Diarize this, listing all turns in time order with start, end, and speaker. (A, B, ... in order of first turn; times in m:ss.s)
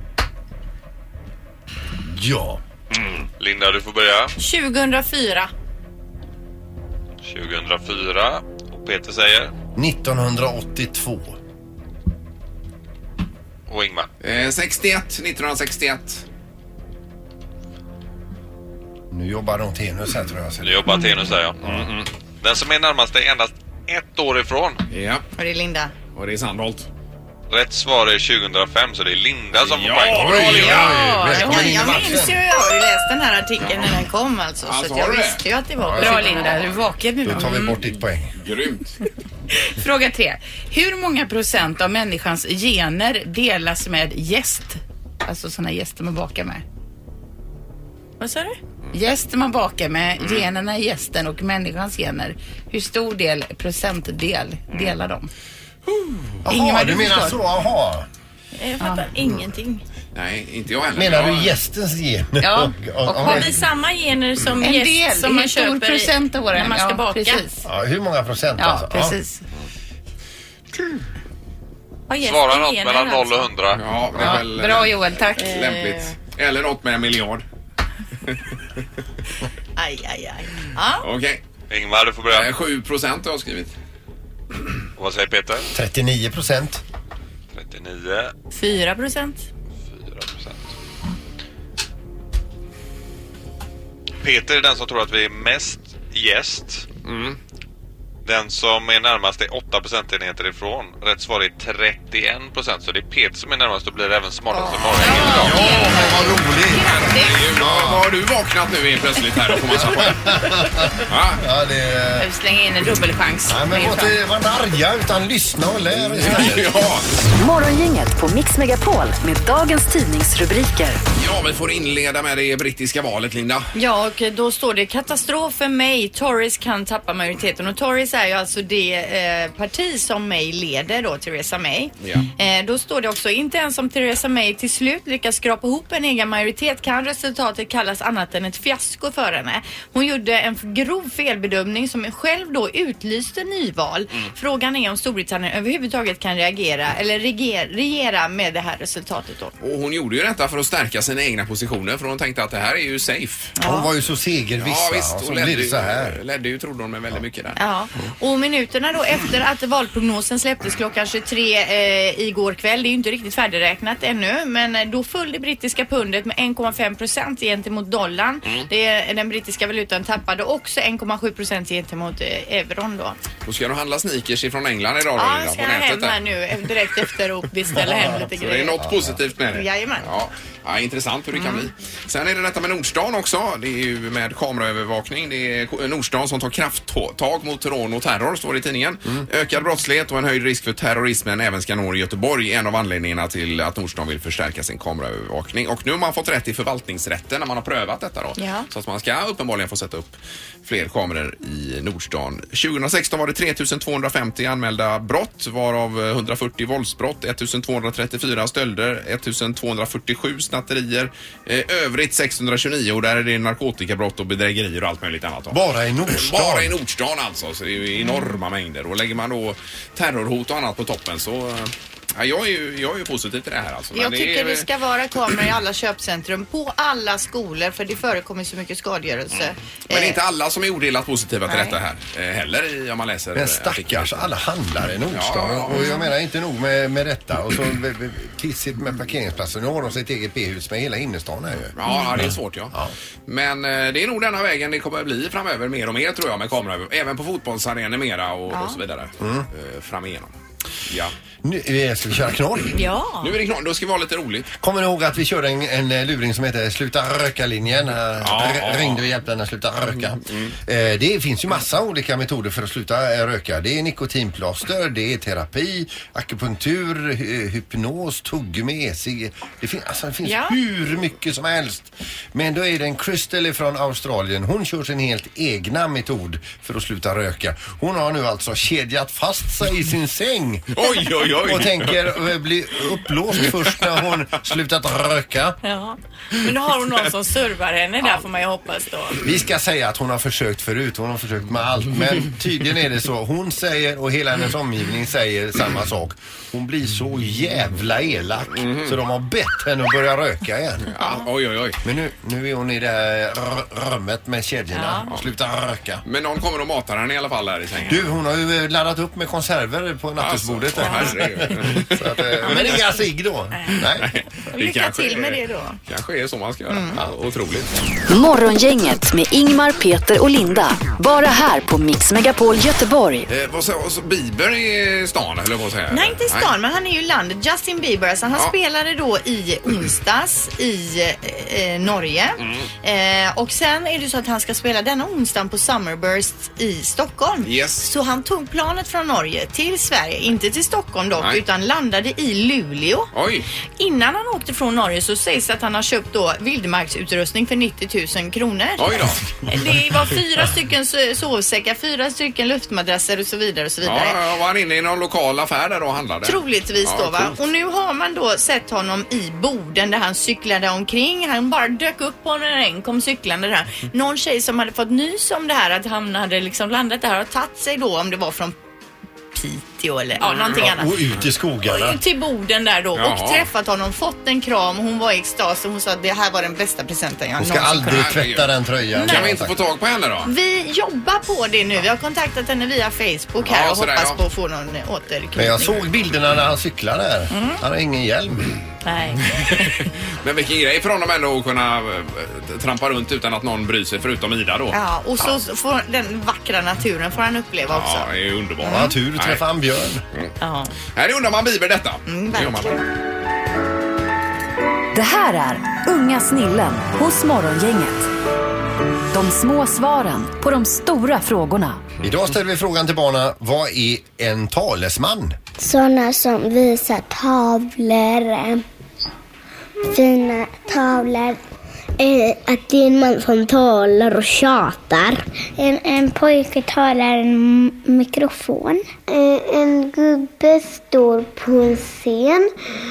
0:02.0-0:02.6 A
0:03.4-0:04.3 B
0:04.4-0:05.5 C
0:07.2-0:09.5 B
0:09.7-0:11.4 A
0:13.7-0:14.1 B
0:14.2-0:16.2 D
0:19.1-0:20.8 A
0:20.6-0:21.6 B
0:21.6-0:22.1 D
0:22.4-0:24.8 B
0:24.9-0:25.2 D
0:25.4-0:25.9 C
0:26.1-0:26.9 D
0:27.5-0:30.7 B
0:29.6-0:31.1 D
0:30.0-0:32.4 A
0:30.7-0:32.2 E
0:31.3-0:36.7 C
0:33.6-0:33.9 D
0:34.6-0:35.4 D
0:35.8-0:36.2 A
0:36.0-0:37.8 E
0:37.2-0:38.4 A
0:38.4-0:39.0 D
0:39.5-0:46.6 E
0:48.2-0:48.6 C
0:48.9-0:55.3 E
0:56.0-0:56.3 D
0:56.4-0:57.4 E
0:56.4-0:58.1 A
0:58.6-0:59.8 C
0:58.8-0:59.1 E
1:00.1-1:01.5 D
1:00.9-1:03.6 A
1:02.4-1:03.5 E
1:03.2-1:07.4 C
1:04.6-1:07.6 E
1:07.6-1:09.2 A
1:08.6-1:09.4 E
1:12.1-1:13.5 C
1:12.2-1:13.8 B
1:13.7-1:17.4 D
1:14.1-1:15.6 E
1:15.4-1:16.0 C
1:19.8-1:21.1 C
1:21.0-1:21.4 D
1:21.7-1:22.5 B
1:22.3-1:23.7 D
1:25.0-1:25.7 B
1:25.7-1:26.8 A
1:27.5-1:28.3 B
1:28.5-1:29.4 C
1:29.9-1:30.7 B
1:34.2-1:36.9 B
1:37.0-1:37.4 D
1:38.2-1:45.6 B
1:44.6-1:46.3 C
1:44.6-1:47.3 E
1:45.4-1:48.0 A
1:47.1-1:50.3 D
1:49.7-1:52.3 A
1:51.1-1:51.4 D
1:52.2-1:54.2 E
1:53.5-1:56.8 A
1:56.0-1:57.1 D
1:57.4-2:01.0 F
2:01.1-2:03.7 D
2:03.7-2:29.5 C
2:12.0-2:12.3 D
2:29.6-2:33.5 D
2:33.6-2:33.9 C
2:33.6-2:36.2 A
2:34.6-2:37.6 D
2:37.6-2:53.2 C
2:53.4-2:56.2 D
2:55.2-2:58.8 C
2:58.2-3:44.7 D
2:58.8-2:59.1 A
2:59.5-3:00.1 C
3:01.4-3:01.7 C
3:18.4-3:18.7 C
3:35.5-3:36.7 A
3:43.9-3:50.2 C
3:49.3-3:54.3 D
3:51.5-3:51.8 C
3:53.3-4:02.9 A
3:55.1-3:55.9 D
3:55.8-3:56.0 C
4:01.7-4:02.8 D
4:03.3-4:10.3 D
4:08.5-4:08.8 C
4:09.2-4:09.5 A
4:10.9-4:11.1 D
4:11.4-4:12.8 A
4:12.7-4:13.3 C
4:13.2-4:14.5 D
4:14.6-4:40.8 A
4:18.2-4:19.0 D
4:20.2-4:20.5 D
4:30.2-4:30.6 C
4:40.7-4:42.1 D
4:41.4-4:45.6 A
4:45.6-4:49.2 C
4:49.2-5:00.9 A
4:58.5-4:59.0 D
5:00.9-5:01.8 D
5:01.0-5:01.2 C
5:01.8-5:06.0 A
5:04.7-5:05.1 C
5:06.0-5:08.2 D
5:07.9-5:14.1 A
5:10.2-5:12.8 D
5:10.8-5:11.2 C
5:12.4-5:12.9 C
5:13.5-5:13.8 C
5:13.8-5:17.7 D
5:14.5-5:15.8 C
5:16.7-5:17.0 C
5:18.1-5:23.3 F
5:23.3-5:26.5 D
5:25.9-5:43.1 C
5:32.4-5:32.7 D
5:37.4-5:37.8 D
5:41.2-5:41.4 D
5:43.1-5:43.5 D
5:43.8-5:54.2 C
5:48.8-5:49.2 D
5:53.8-5:57.3 D
5:56.2-6:08.6 C
6:09.3-6:10.9 C
6:10.2-6:10.6 D
6:10.6-6:12.0 A
6:11.6-6:18.1 C
6:13.0-6:13.5 D
6:17.4-6:19.5 A
6:17.8-6:20.3 D
6:18.9-6:19.3 C
6:20.2-6:25.8 C
6:23.4-6:24.2 D
6:25.4-6:28.5 A
6:27.3-6:27.6 C
6:28.8-6:29.4 C
6:29.8-6:35.3 D
6:34.7-6:38.1 C
6:37.7-6:39.4 D
6:38.6-6:38.9 C
6:38.6-6:40.0 A
6:40.4-6:40.7 C
6:40.9-6:42.8 D
6:42.0-6:42.8 C
6:44.9-6:48.1 F
6:49.1-6:51.8 F
6:52.0-6:55.4 A
6:55.6-6:58.6 G
6:59.9-7:01.4 G
7:02.0-7:12.5 G